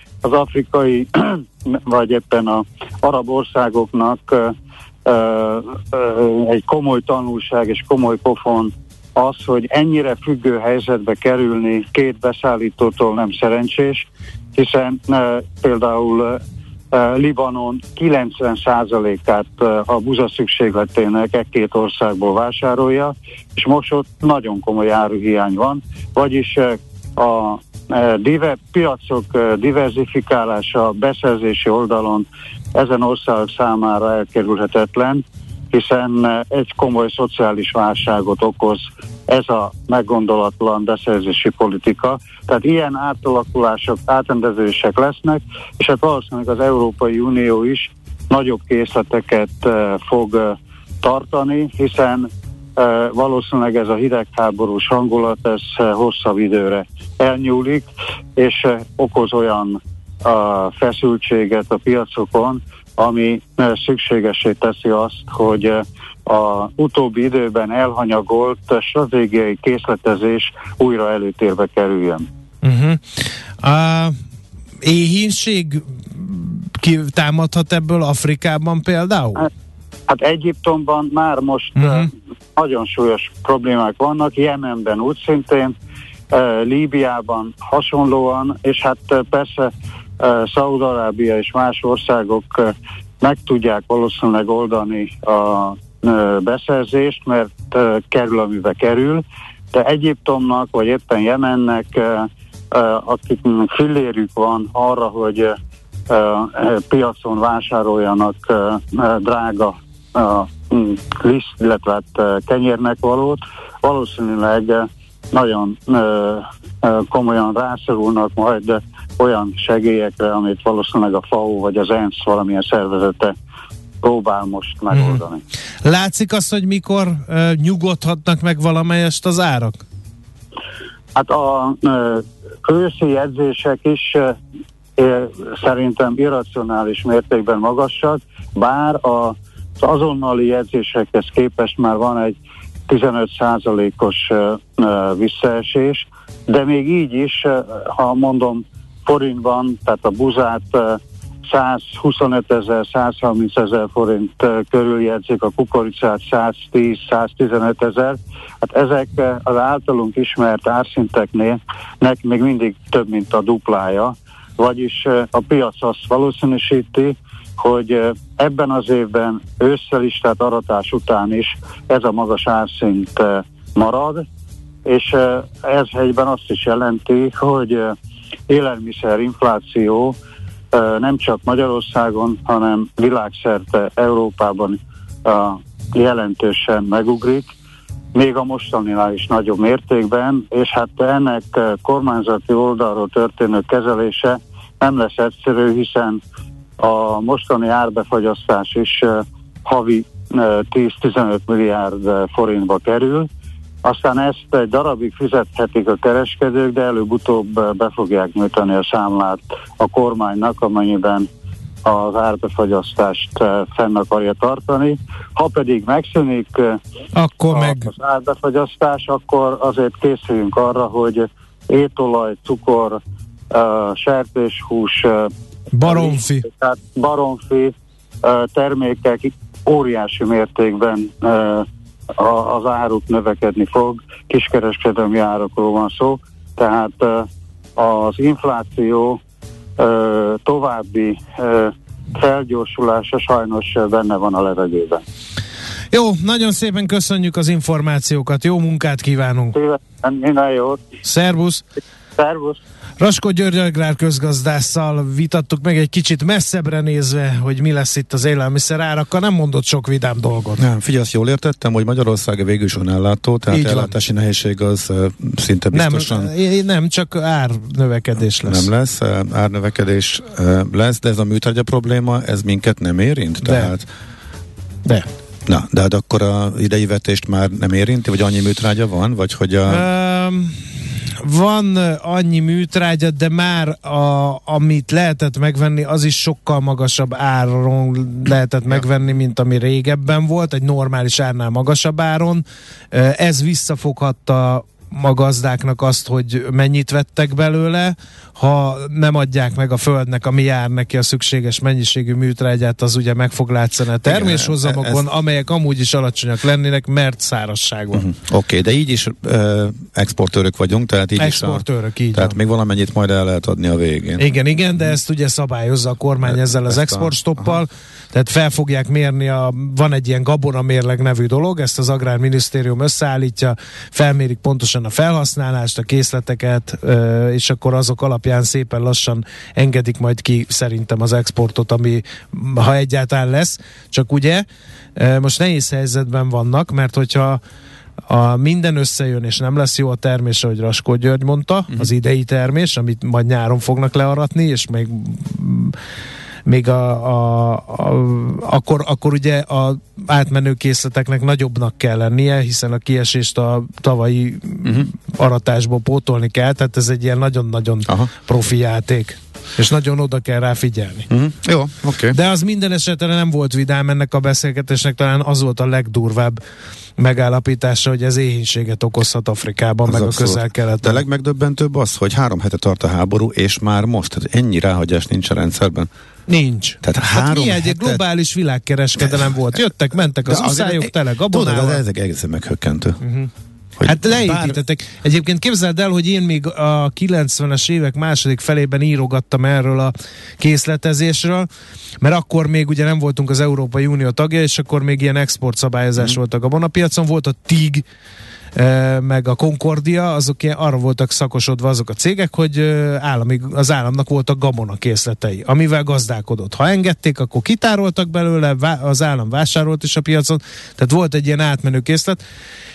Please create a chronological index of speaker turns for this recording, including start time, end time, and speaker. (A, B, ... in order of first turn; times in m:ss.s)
0:00.2-0:16.4 A
0:16.9-1:12.3 A
1:12.6-1:13.0 B
1:13.6-1:14.2 B
1:14.8-1:19.5 B
1:20.1-1:25.7 A
1:21.8-1:22.1 B
1:26.3-1:45.6 A
1:46.1-2:03.3 A
2:04.0-2:05.4 A
2:04.9-2:05.2 B
2:05.8-2:09.8 B
2:11.1-2:14.4 A
2:15.0-2:22.4 A
2:22.9-2:54.2 A
2:54.9-2:58.0 A
2:58.5-3:00.2 A
3:00.7-3:07.5 A
3:08.1-3:16.2 A
3:16.8-3:23.3 A
3:23.8-3:31.3 A
3:31.8-3:36.8 A
3:37.1-3:37.9 B
3:37.5-3:43.0 A
3:43.5-3:45.3 A
3:45.7-3:46.4 B
3:45.9-3:59.2 A
3:59.8-4:05.0 A
4:05.9-4:09.6 B
4:09.5-4:10.8 A
4:11.0-4:11.6 B
4:12.2-4:12.6 A
4:13.0-4:20.6 B
4:20.6-4:26.3 C
4:23.5-4:23.9 B
4:25.7-4:28.7 B
4:28.4-4:33.9 C
4:33.4-4:33.7 B
4:35.5-4:39.9 C
4:39.7-4:40.7 B
4:41.2-5:08.1 B
5:04.0-5:05.0 C
5:07.9-5:14.2 C
5:11.2-5:12.4 B
5:14.2-5:37.4 B
5:16.2-5:17.6 C
5:38.1-5:45.8 B
5:46.4-6:01.1 B
5:54.6-5:54.9 C
6:01.1-6:02.2 C
6:02.1-6:06.4 B
6:07.0-6:11.0 B
6:09.8-6:15.9 C
6:16.3-6:21.8 B
6:16.8-6:18.0 C
6:19.0-6:19.3 C
6:20.2-6:23.0 C
6:23.0-6:23.3 B
6:23.8-6:24.6 C
6:23.8-6:31.5 B
6:32.0-6:37.8 B
6:38.6-6:52.2 B